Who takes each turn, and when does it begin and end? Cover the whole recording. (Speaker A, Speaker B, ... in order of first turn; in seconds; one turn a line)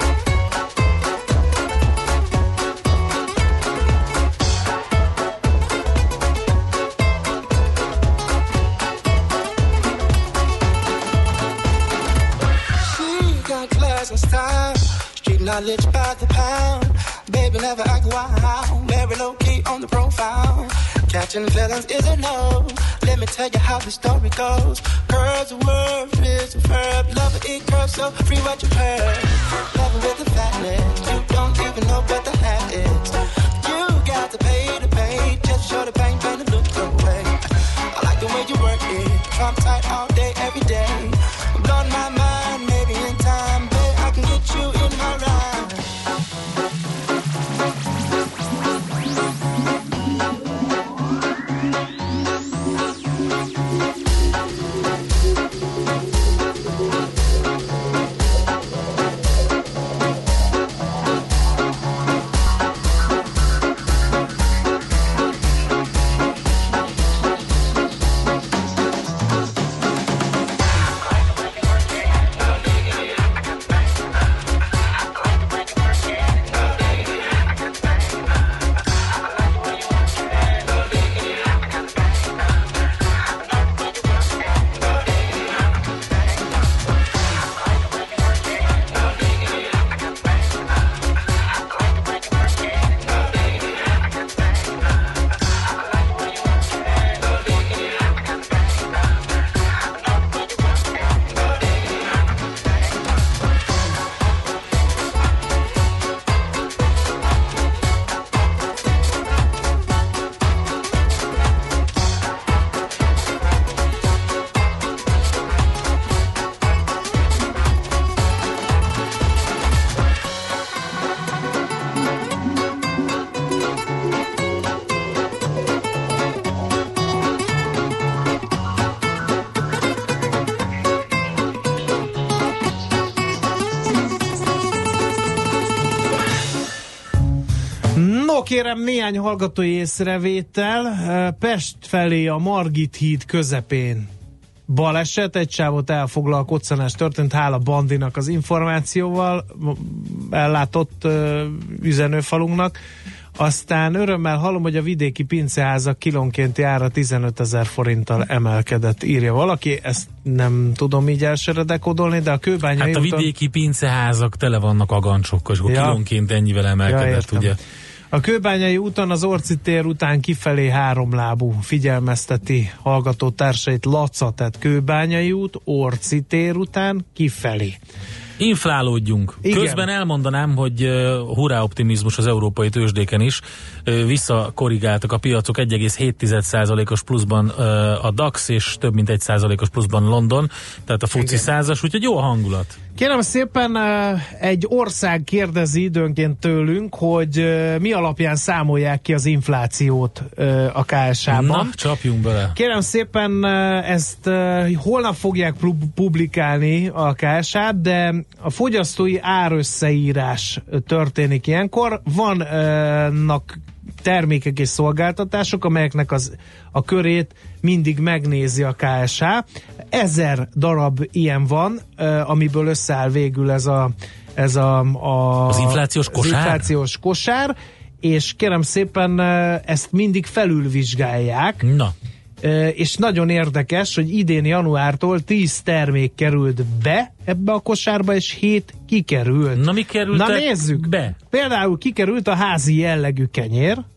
Speaker A: 12.8-45.8
Speaker B: 137.9-144.1
Speaker B: 144.7-152.8
Speaker B: 153.4-163.3
Speaker C: 162.8-167.6
Speaker B: 165.7-166.0
Speaker B: 166.8-167.6
Speaker B: 168.1-177.8
Speaker C: 178.4-192.8
Speaker B: 179.4-179.9
Speaker B: 191.2-191.5
Speaker B: 192.9-201.8
Speaker C: 201.3-202.6
Speaker B: 202.6-231.6
Speaker C: 225.5-226.7
Speaker C: 231.6-231.9
Speaker B: 232.4-243.8
Speaker C: 239.6-241.2